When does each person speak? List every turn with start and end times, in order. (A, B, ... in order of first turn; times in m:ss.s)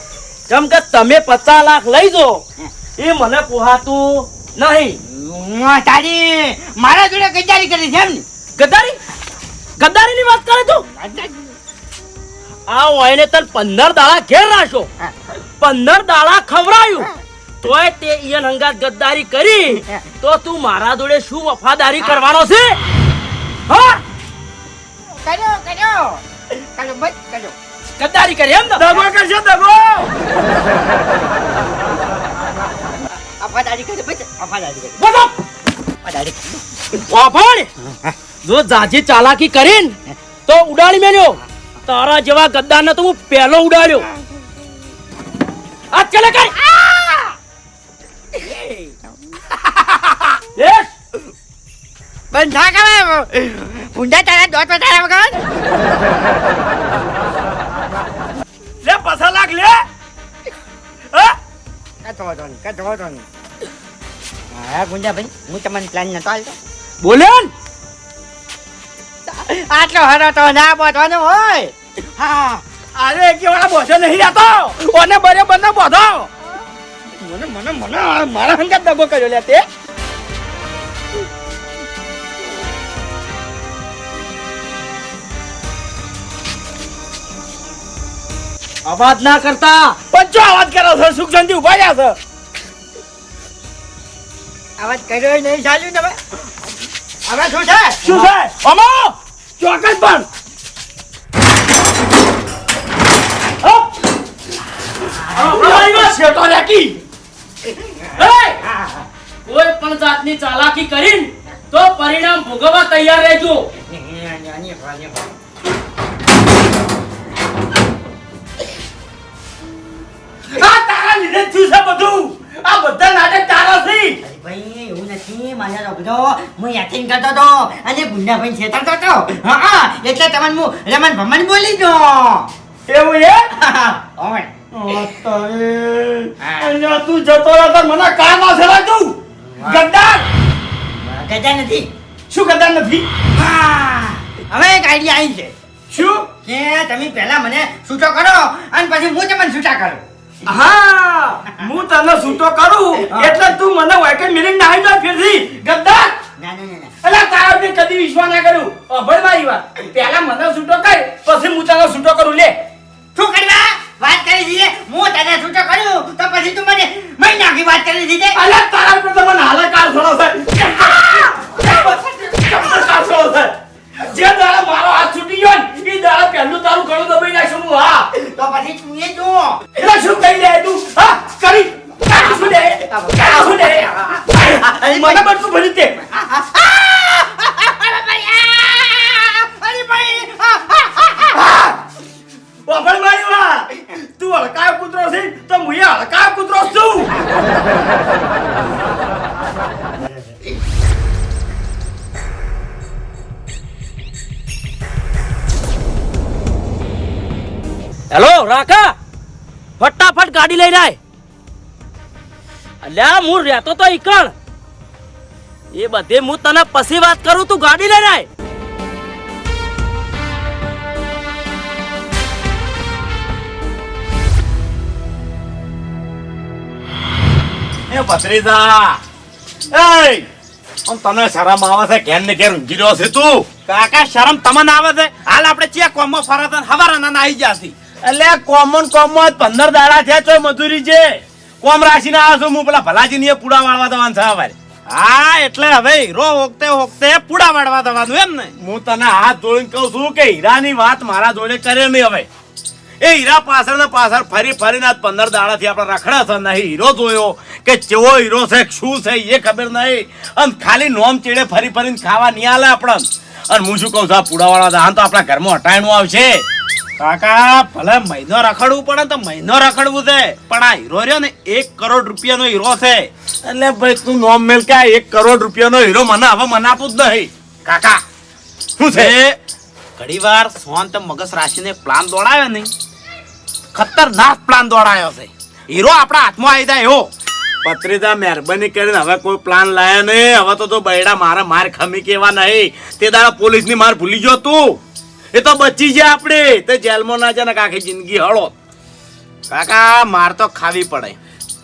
0:00.5-0:02.4 A
0:03.0-0:05.0 A
0:05.0-0:08.2 B
0:08.6-0:09.0 A
0:09.8-0:10.9 A
0:10.9-0:11.6 B
0:12.7-0:14.9 A
0:15.6-0:17.1 A
0:17.6-0:22.8 A
0:19.7-0:20.0 B
0:23.7-0:24.0 A
0:25.2-0:27.6 B
0:28.0-0:28.9 A
0:28.8-0:30.1 C
0:33.4-0:35.0 B
0:35.0-0:35.3 A
0:36.0-0:36.8 B
0:37.1-0:37.7 A
0:37.8-0:38.2 B
0:38.4-0:40.0 A
0:40.5-0:44.1 A
0:45.9-0:46.6 A
0:46.6-0:47.4 B
0:48.3-0:50.4 B
0:50.6-0:50.9 A
0:52.3-0:55.4 B
0:58.8-0:59.9 C
1:02.0-1:03.3 B
1:04.5-1:06.6 B
1:07.0-1:07.5 A
1:09.3-1:12.6 B
1:13.0-1:16.3 C
1:17.2-1:19.6 C
1:28.9-1:30.0 A
1:30.1-1:32.2 C
1:34.8-1:36.4 B
1:37.2-1:38.0 B
1:38.0-1:38.6 C
1:38.1-1:39.1 A
1:39.6-1:40.3 C
1:45.4-1:46.2 A
1:45.4-1:47.0 C
1:47.6-1:49.1 B
1:48.2-1:48.6 A
1:49.5-1:53.7 A
1:53.8-1:55.2 B
2:00.5-2:04.2 C
2:04.2-2:12.5 B
2:12.9-2:13.5 C
2:13.5-2:15.0 B
2:14.7-2:20.3 C
2:16.4-2:16.8 B
2:19.4-2:19.9 B
2:21.0-2:21.9 B
2:22.3-2:23.1 C
2:23.3-2:25.5 B
2:25.9-2:26.3 C
2:26.4-2:30.0 B
2:30.5-2:36.2 C
2:33.1-2:33.5 B
2:36.4-2:37.0 B
2:37.0-2:42.6 C
2:43.2-2:48.4 B
2:48.3-2:58.1 C
2:50.9-2:52.1 B
2:58.1-2:59.8 B
2:59.7-3:06.0 C
3:02.1-3:03.8 B
3:04.6-3:05.3 B
3:06.1-3:11.6 B
3:12.7-3:17.1 C
3:28.1-3:29.0 A
3:29.8-3:31.0 A
3:32.8-3:34.3 A
3:35.7-3:38.3 A
3:47.9-3:49.0 D
3:49.7-3:50.3 D
3:50.9-3:53.5 D
3:53.7-3:57.7 E
3:58.0-4:04.6 D
4:04.9-4:08.5 E
4:08.6-4:12.3 D
4:13.0-4:26.4 D
4:27.0-4:33.1 E
4:33.4-4:37.3 D
4:37.7-4:38.0 E
4:38.8-4:39.2 D
4:38.9-4:39.4 E
4:40.0-4:42.7 E
4:43.7-4:47.1 E
4:47.6-4:54.8 D
4:55.3-4:58.5 D
4:59.5-5:01.2 E